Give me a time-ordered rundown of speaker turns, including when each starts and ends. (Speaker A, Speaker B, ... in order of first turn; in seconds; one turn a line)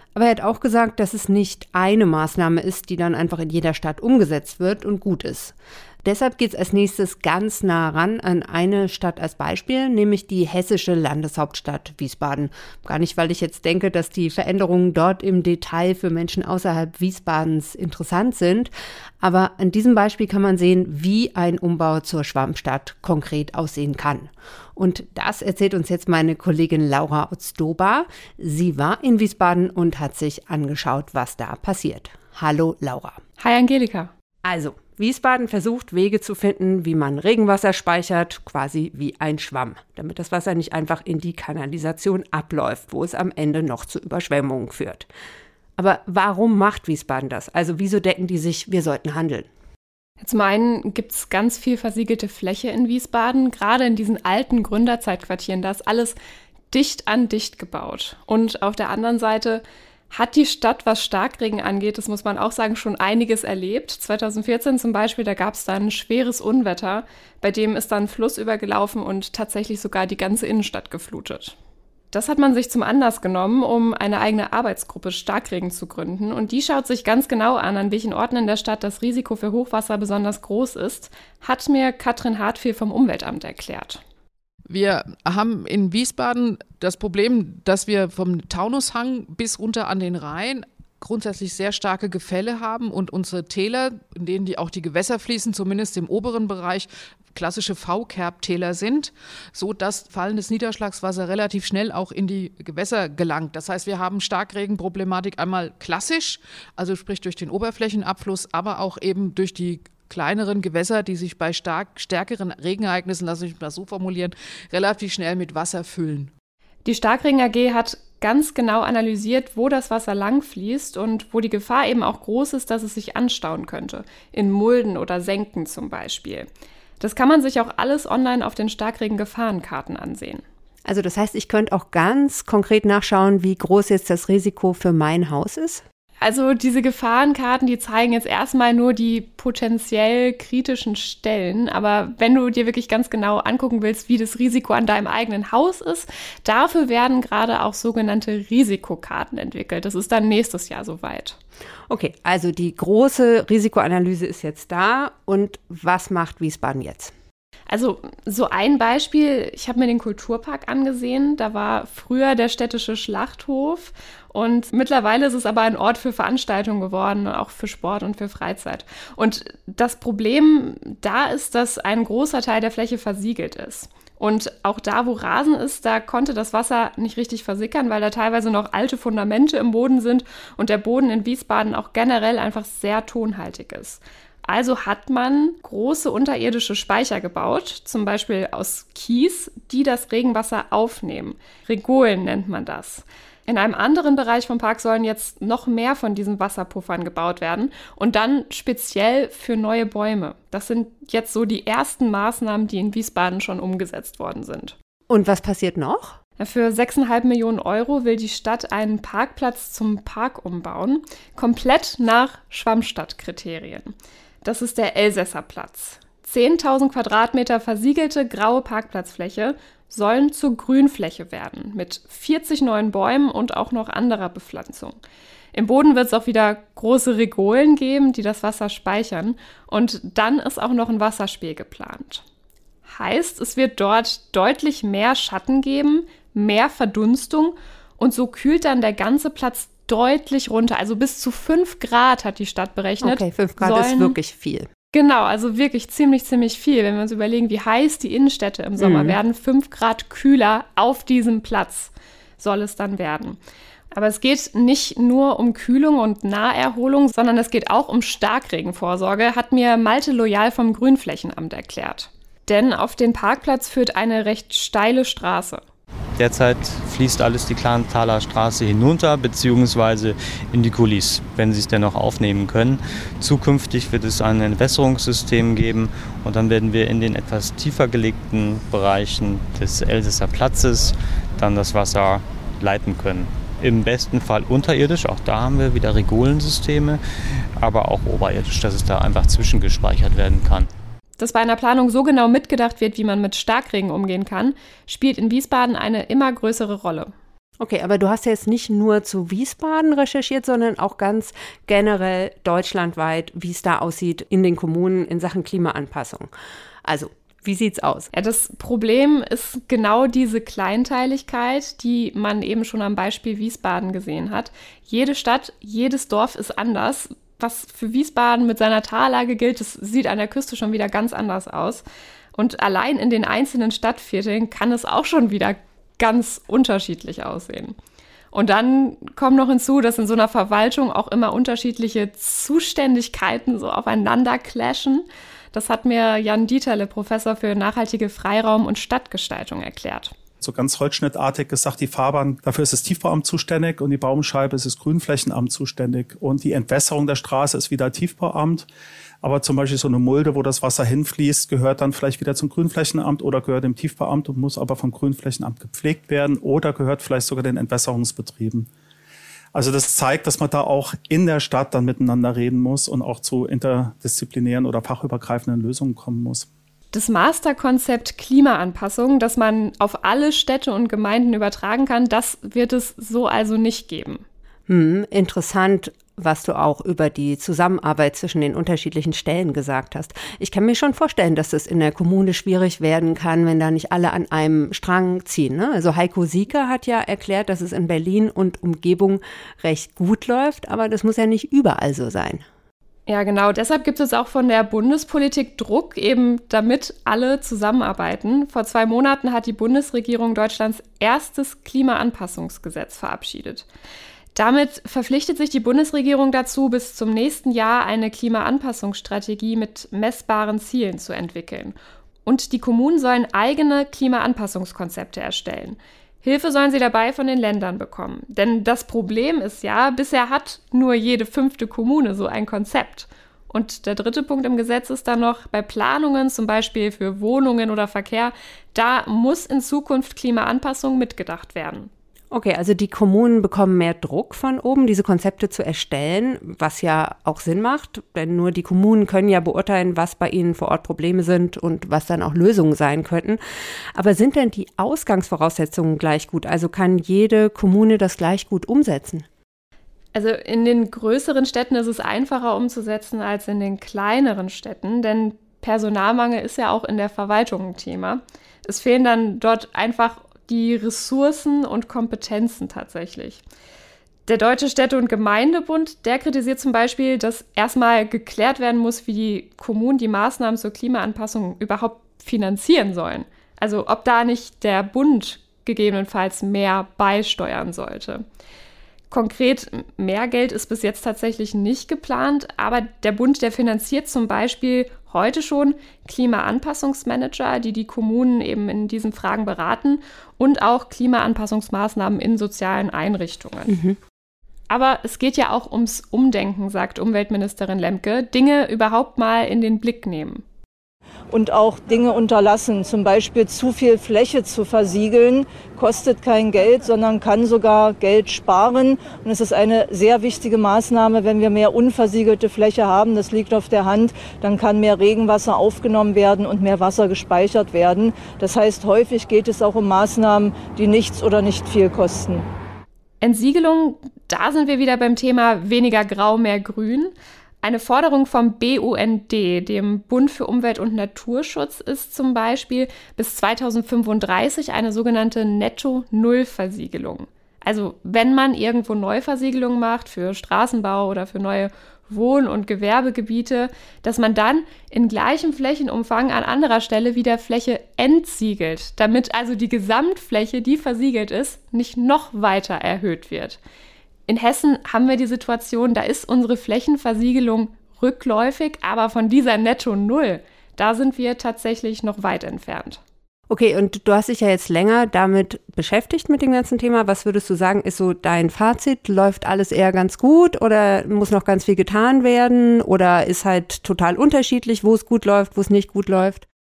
Speaker A: 0.1-33.2
Speaker B: 33.4-34.1
Speaker A: 34.4-45.1
Speaker A: 45.8-49.5
Speaker B: 50.2-56.2
Speaker B: 56.7-71.6
Speaker B: 72.1-84.0
Speaker C: 84.7-116.3
Speaker B: 116.8-126.5
Speaker B: 127.0-130.4
Speaker A: 130.9-135.8
Speaker B: 136.2-151.4
Speaker A: 151.9-157.1
Speaker B: 157.7-204.8
Speaker A: 205.1-206.2
Speaker B: 206.4-225.0
Speaker B: 225.5-232.2
Speaker B: 232.9-244.2
Speaker A: 243.0-244.7
Speaker B: 244.9-253.4
Speaker A: 248.8-249.2
Speaker B: 253.9-265.6
Speaker D: 266.2-290.7
Speaker B: 291.2-297.1
Speaker A: 297.6-306.3
Speaker A: 306.8-308.1
Speaker B: 308.1-327.8
Speaker B: 328.3-340.1
Speaker E: 340.4-348.7
Speaker E: 349.2-358.7
Speaker E: 359.5-366.5
Speaker B: 366.9-374.2
Speaker A: 374.7-392.4
Speaker B: 393.1-403.7
Speaker B: 404.4-431.9
Speaker A: 432.3-443.4
Speaker A: 443.9-449.3
Speaker B: 450.1-463.4
Speaker B: 464.3-478.2
Speaker B: 479.1-493.7
Speaker A: 493.7-494.0
Speaker B: 494.7-500.4
Speaker F: 501.3-522.5
Speaker B: 523.2-553.6
Speaker B: 554.3-563.0
Speaker A: 563.5-576.5